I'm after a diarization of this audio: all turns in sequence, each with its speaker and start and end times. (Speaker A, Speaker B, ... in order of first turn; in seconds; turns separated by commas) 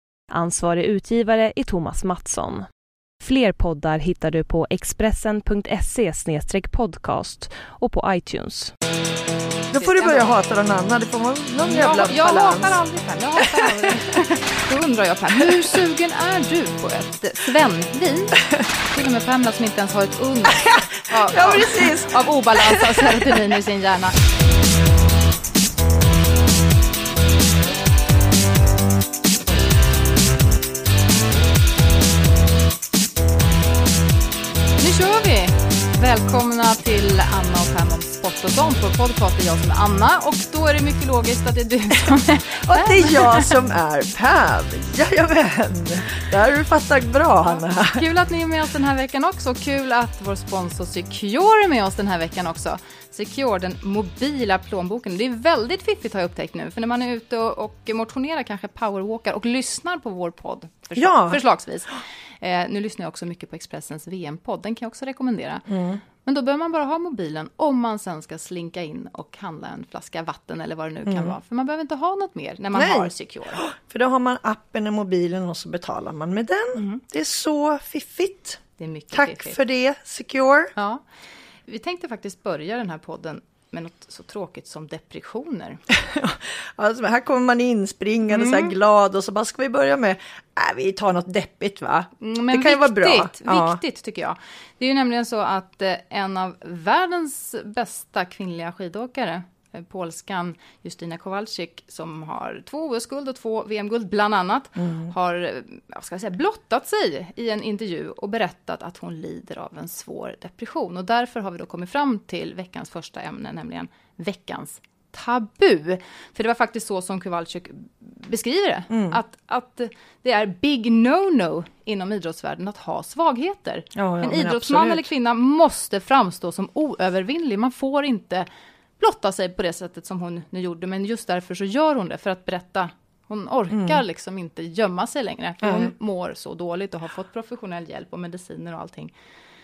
Speaker A: 0.3-2.6, Speaker A: 3.2-8.7, Speaker B: 9.7-12.8, Speaker C: 9.8-10.3, Speaker C: 11.6-18.4, Speaker B: 13.6-13.9, Speaker C: 18.9-24.1, Speaker B: 20.6-23.2, Speaker C: 34.8-43.5, Speaker B: 42.6-48.0, Speaker C: 47.5-65.7, Speaker B: 61.0-61.4, Speaker B: 65.7-66.0, Speaker C: 66.2-73.6, Speaker B: 71.0-71.3, Speaker B: 72.7-80.7, Speaker C: 78.8-79.6, Speaker C: 80.8-81.0, Speaker C: 81.7-85.8, Speaker B: 85.9-93.8, Speaker C: 88.3-88.7, Speaker C: 92.2-128.5, Speaker B: 104.8-105.1, Speaker B: 118.9-119.2, Speaker B: 124.0-125.1, Speaker C: 129.0-139.1, Speaker B: 133.7-134.0, Speaker B: 135.6-135.9